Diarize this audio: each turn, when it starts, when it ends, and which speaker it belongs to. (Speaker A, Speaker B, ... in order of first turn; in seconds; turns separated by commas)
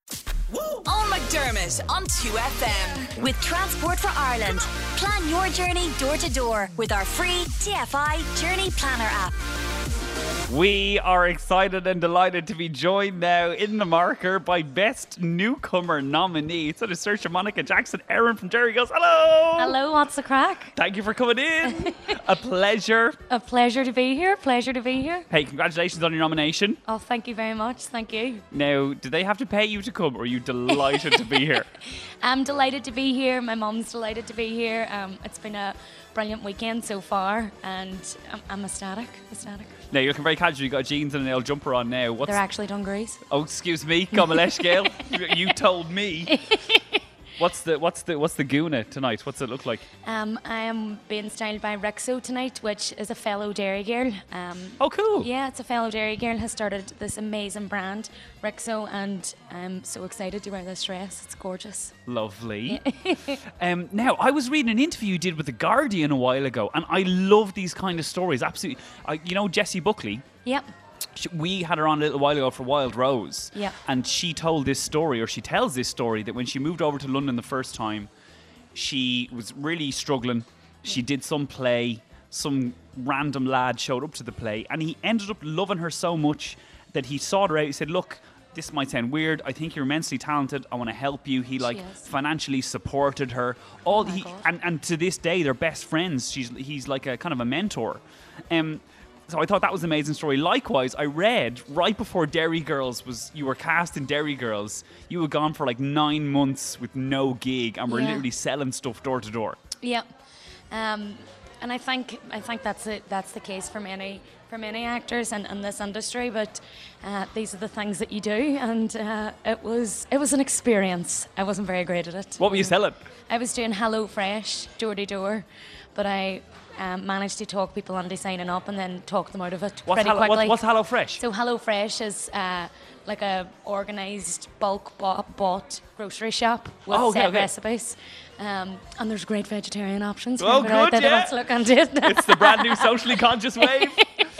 Speaker A: 0.8-9.3, Speaker B: 10.5-19.8, Speaker C: 19.6-20.7, Speaker B: 20.8-23.2, Speaker C: 21.8-22.1, Speaker C: 23.3-25.3, Speaker B: 25.3-26.8, Speaker C: 26.8-28.4, Speaker B: 28.5-31.7, Speaker C: 30.9-31.2, Speaker C: 32.2-39.8, Speaker B: 39.9-42.4, Speaker C: 42.2-43.2, Speaker B: 43.3-46.4, Speaker C: 46.3-47.0, Speaker B: 47.4-49.8, Speaker C: 50.0-61.9, Speaker B: 54.8-55.3, Speaker B: 62.1-62.8, Speaker C: 62.7-63.4, Speaker B: 63.5-70.2, Speaker B: 71.2-78.1, Speaker B: 78.7-109.6, Speaker C: 91.6-92.1, Speaker C: 93.9-94.4, Speaker C: 107.9-108.2, Speaker C: 109.8-110.0, Speaker C: 110.7-130.6, Speaker B: 122.4-123.0, Speaker B: 129.8-131.2, Speaker C: 131.2-144.2, Speaker B: 136.9-137.5, Speaker B: 140.4-141.4, Speaker B: 142.0-144.1